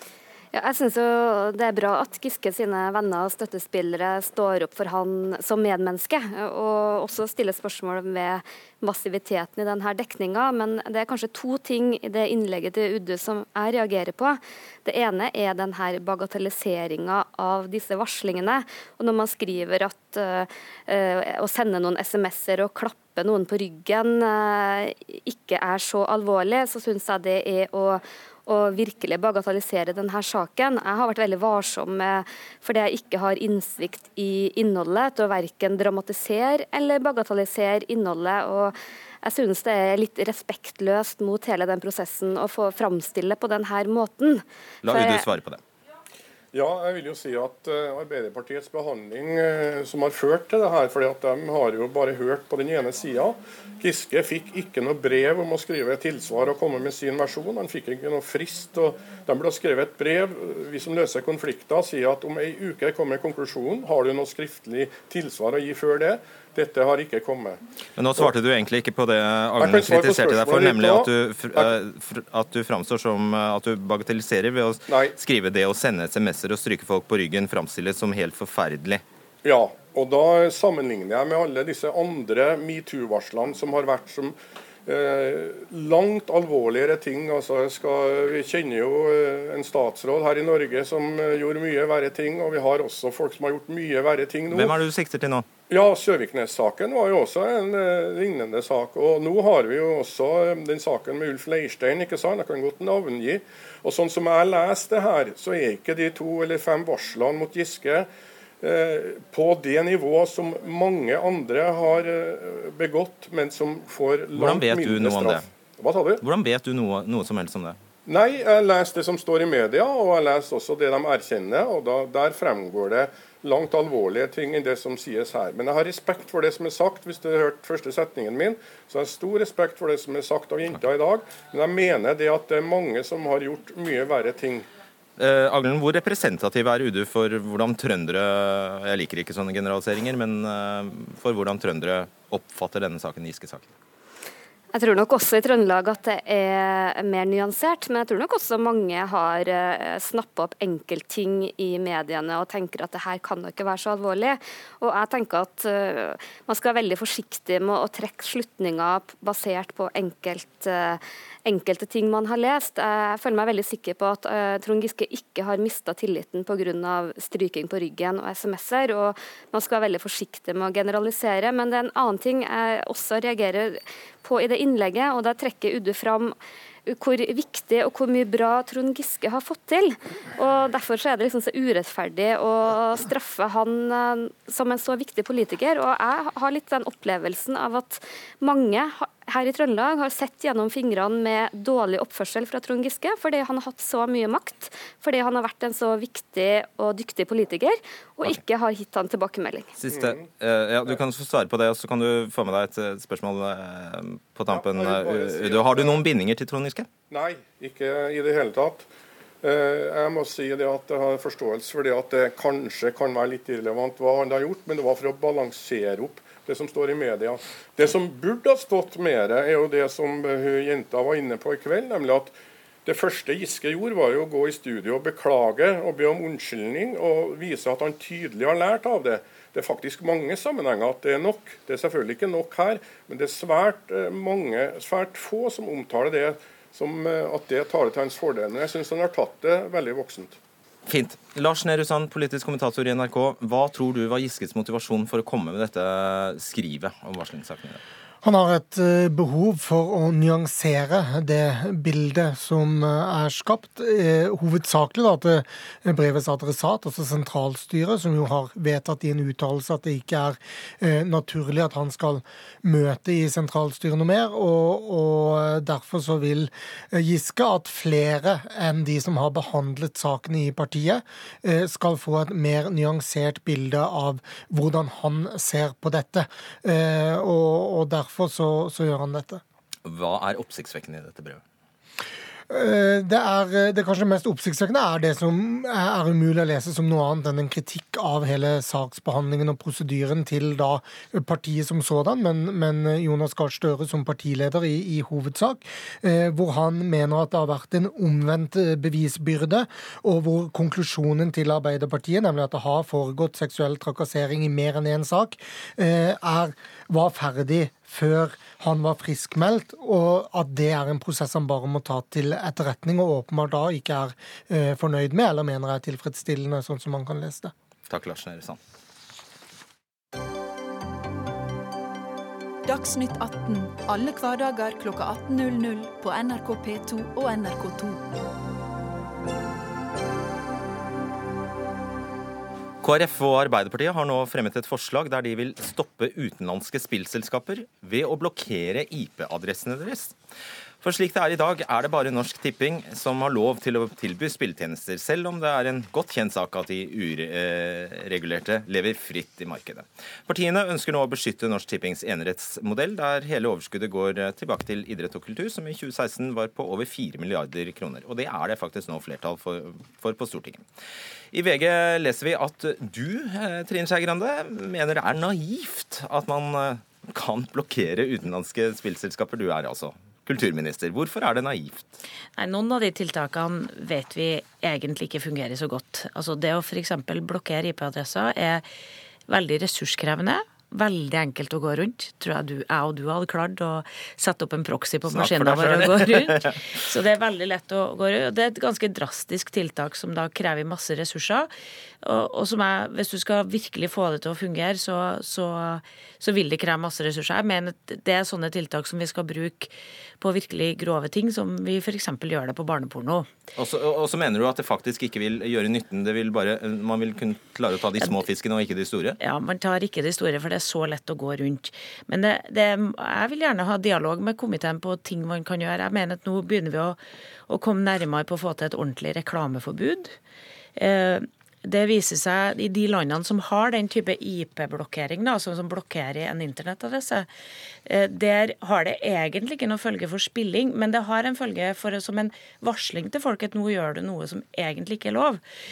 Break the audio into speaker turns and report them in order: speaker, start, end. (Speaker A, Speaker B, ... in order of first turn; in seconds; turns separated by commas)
Speaker A: 0.5-45.2, Speaker B: 44.8-45.6, Speaker C: 46.5-67.6, Speaker B: 68.0-79.0, Speaker C: 69.6-71.8, Speaker C: 74.9-75.2, Speaker C: 79.4-84.3, Speaker C: 84.9-94.8, Speaker B: 94.5-95.5, Speaker C: 95.7-108.1, Speaker C: 108.6-116.2, Speaker B: 114.3-115.5, Speaker B: 116.2-117.8, Speaker C: 118.1-134.7, Speaker B: 135.2-143.7, Speaker A: 144.7-176.4, Speaker A: 176.9-199.7, Speaker B: 199.8-206.9, Speaker C: 204.5-206.0, Speaker C: 207.1-208.9, Speaker C: 209.4-222.3, Speaker C: 222.9-240.4, Speaker B: 240.9-247.8, Speaker D: 248.2-279.4, Speaker B: 279.9-281.4, Speaker D: 282.5-317.5, Speaker B: 317.9-318.6, Speaker E: 322.7-328.0, Speaker B: 332.8-340.2, Speaker B: 340.8-360.7, Speaker B: 361.3-372.0, Speaker F: 372.4-378.7, Speaker F: 379.3-391.5, Speaker B: 385.1-386.6, Speaker F: 392.0-403.3, Speaker B: 403.6-409.2, Speaker F: 409.2-420.1, Speaker F: 420.8-427.3, Speaker F: 427.9-435.4